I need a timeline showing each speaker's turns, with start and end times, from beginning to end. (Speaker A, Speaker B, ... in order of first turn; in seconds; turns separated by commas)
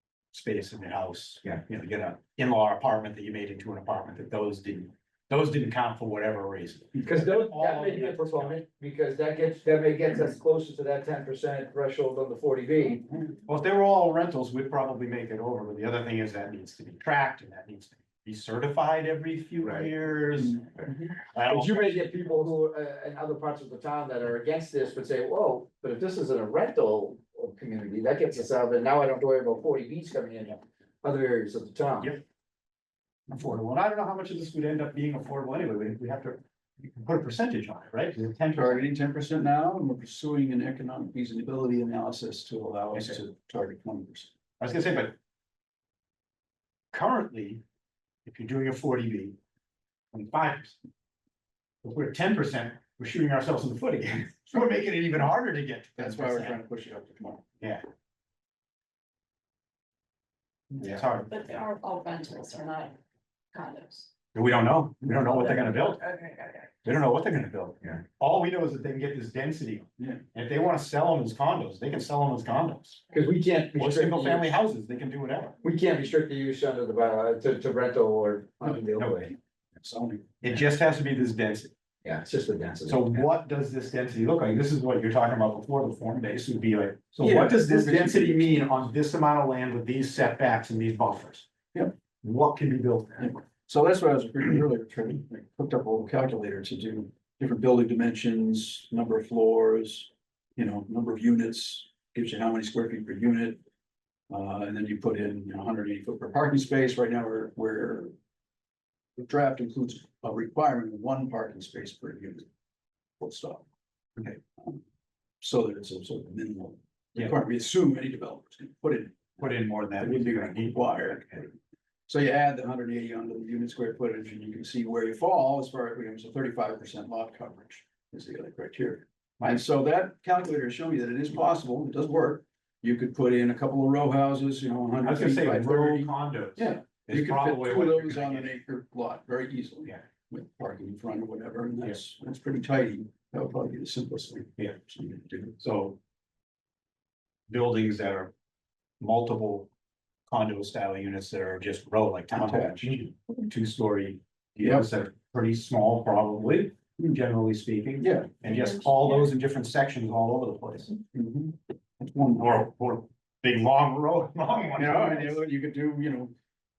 Speaker A: 0.3-8.6, Speaker B: 7.0-13.1, Speaker A: 13.5-22.4, Speaker C: 20.4-21.1, Speaker B: 21.5-32.1, Speaker A: 33.3-38.8, Speaker C: 38.5-44.3, Speaker A: 44.6-45.1, Speaker A: 46.9-47.6, Speaker A: 48.3-49.4, Speaker A: 50.1-50.8, Speaker A: 51.8-56.6, Speaker C: 56.0-57.4, Speaker A: 60.8-61.3, Speaker D: 61.3-63.0, Speaker D: 63.5-64.1, Speaker A: 64.3-66.1, Speaker D: 66.1-66.5, Speaker A: 66.8-73.0, Speaker B: 73.1-74.4, Speaker A: 73.8-75.6, Speaker B: 75.6-79.3, Speaker C: 79.8-80.6, Speaker A: 80.4-81.7, Speaker B: 82.0-83.2, Speaker A: 82.9-91.5, Speaker C: 87.2-88.8, Speaker A: 92.2-93.4, Speaker C: 93.2-103.6, Speaker C: 104.3-108.1, Speaker C: 109.2-112.5, Speaker C: 113.2-113.7, Speaker C: 114.2-114.8, Speaker C: 115.4-121.5, Speaker A: 119.4-121.3, Speaker C: 122.1-145.5, Speaker A: 135.0-138.5, Speaker A: 145.6-146.0, Speaker A: 147.5-148.3, Speaker A: 149.0-149.7, Speaker A: 150.3-161.0, Speaker C: 152.3-153.0, Speaker C: 154.6-154.8, Speaker C: 158.0-158.3, Speaker C: 161.1-162.5, Speaker A: 162.4-165.4, Speaker C: 164.8-166.3